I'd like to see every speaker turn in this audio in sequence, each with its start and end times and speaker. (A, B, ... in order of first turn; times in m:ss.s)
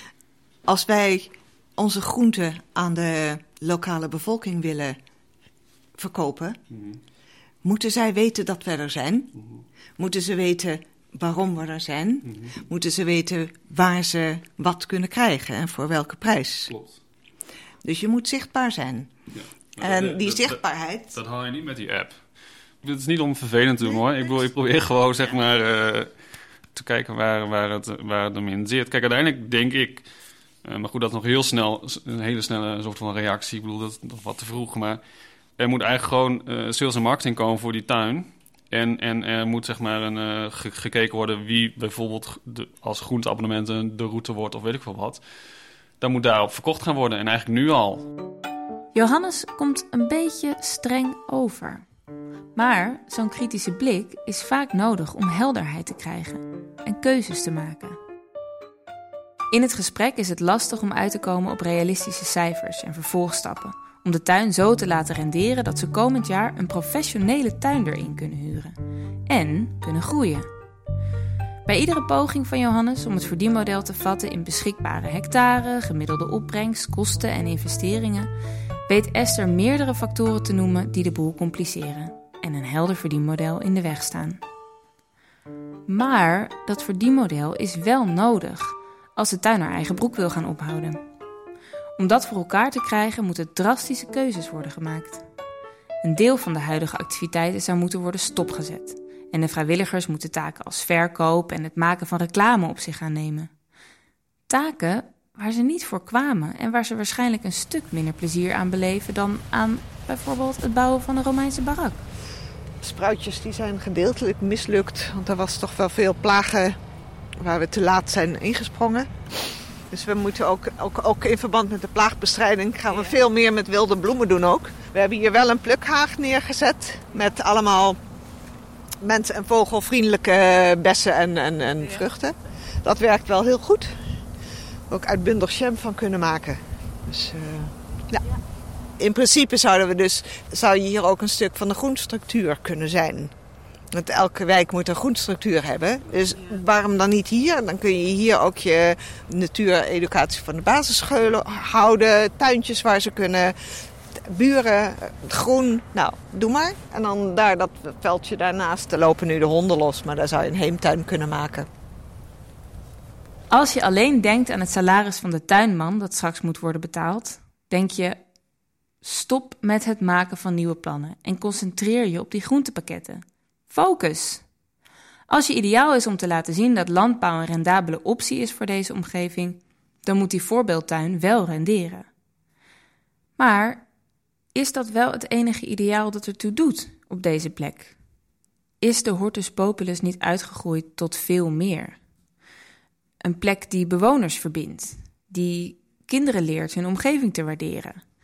0:00.7-0:05.0 A
0:06.0-0:06.6 A
0:07.6-0:09.3 A
0:10.0-0:16.7 A
0:16.7-0:17.0 B
0:17.8-0:19.1 A
0:19.3-0:20.6 B
0:19.8-0:21.2 A
0:21.1-0:22.2 B
0:22.8-0:26.1 B
0:26.7-0:30.0 B
0:30.6-0:35.0 B
0:35.6-0:45.2 B
0:46.0-0:48.1 B
0:49.0-0:51.8 C
0:52.6-0:58.0 C
0:59.5-1:08.8 C
1:09.3-1:10.5 C
1:11.7-1:18.3 C
1:18.9-1:24.4 C
1:25.9-1:31.0 C
1:32.0-1:35.2 C
1:36.0-1:43.5 C
1:44.5-1:52.0 C
1:52.8-1:56.8 A
1:57.4-2:08.0 A
2:09.0-2:14.1 A
2:14.9-2:18.3 A
2:19.0-2:23.3 A
2:23.9-2:41.7 A
2:43.5-2:48.2 C
2:49.0-2:54.4 C
2:55.3-3:02.1 C
3:03.4-3:03.9 C
3:04.6-3:07.9 C
3:08.8-3:12.0 C
3:13.2-3:18.0 C